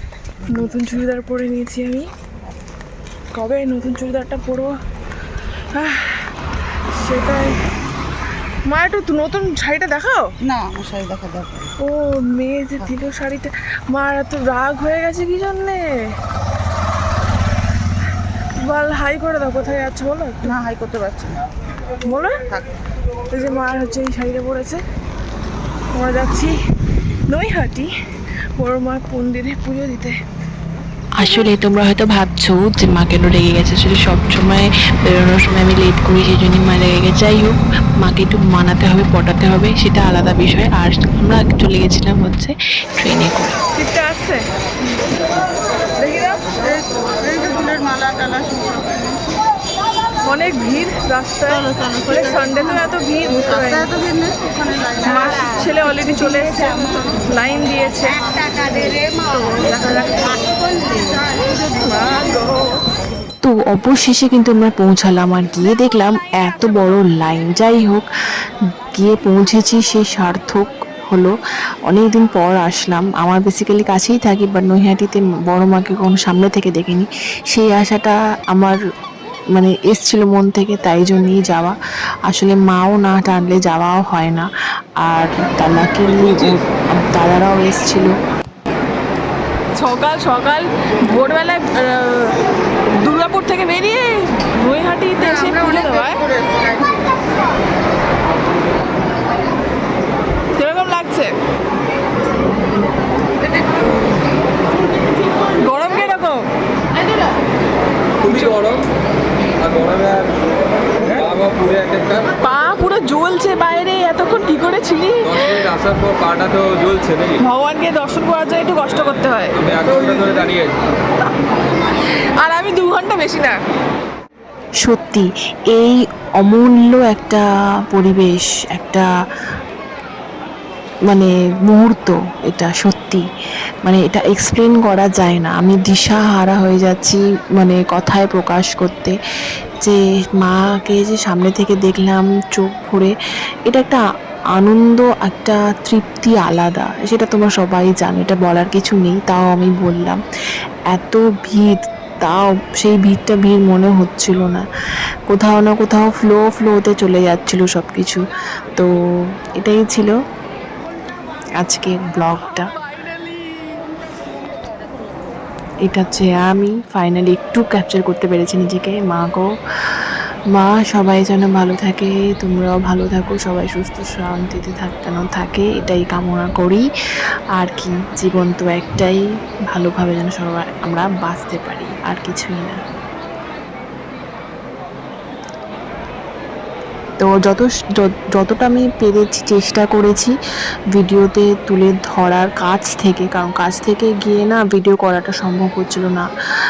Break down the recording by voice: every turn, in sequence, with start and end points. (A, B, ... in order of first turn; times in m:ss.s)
0:00.5-0:02.1 A
0:03.3-0:04.8 A
0:05.7-0:06.3 A
0:06.9-0:07.6 A
0:08.7-0:10.4 A
0:10.4-0:11.7 B
0:11.8-0:16.2 A
0:18.6-0:20.6 A
0:20.4-0:21.4 B
0:22.0-0:22.4 A
0:23.3-0:24.8 A
0:25.9-0:26.6 A
0:27.3-0:27.9 A
0:28.6-0:30.2 A
0:31.2-0:43.6 C
0:43.8-0:44.4 A
0:46.0-0:46.5 A
0:46.5-0:49.2 B
0:50.2-0:53.9 A
0:51.7-0:52.6 B
0:53.5-0:55.7 B
0:55.0-0:58.2 A
0:56.5-0:56.9 B
0:58.3-0:59.5 B
0:59.5-1:00.4 A
1:00.4-1:01.5 B
1:01.7-1:02.7 A
1:03.4-1:08.0 C
1:09.0-1:11.3 C
1:11.9-1:18.8 C
1:19.5-1:21.7 C
1:22.3-1:24.5 C
1:25.0-1:28.1 C
1:29.8-1:32.4 A
1:33.0-1:36.3 A
1:35.2-1:36.9 B
1:40.6-1:41.4 A
1:45.5-1:46.5 A
1:48.2-1:48.8 A
1:48.4-1:48.8 D
1:49.6-1:50.4 D
1:51.0-1:52.3 D
1:52.4-1:55.8 A
1:55.5-1:57.4 D
1:57.4-2:00.1 A
1:59.6-2:00.7 D
2:02.4-2:03.6 A
2:04.8-2:09.1 C
2:11.1-2:13.2 C
2:13.8-2:19.2 C
2:19.8-2:23.1 C
2:23.7-2:24.0 C
2:24.6-2:30.2 C
2:30.9-2:34.6 C
2:35.3-2:38.2 C
2:39.6-2:40.1 C
2:41.6-2:42.7 C
2:45.8-2:56.8 C
2:57.5-3:02.8 C
3:07.2-3:10.3 C
3:10.9-3:16.2 C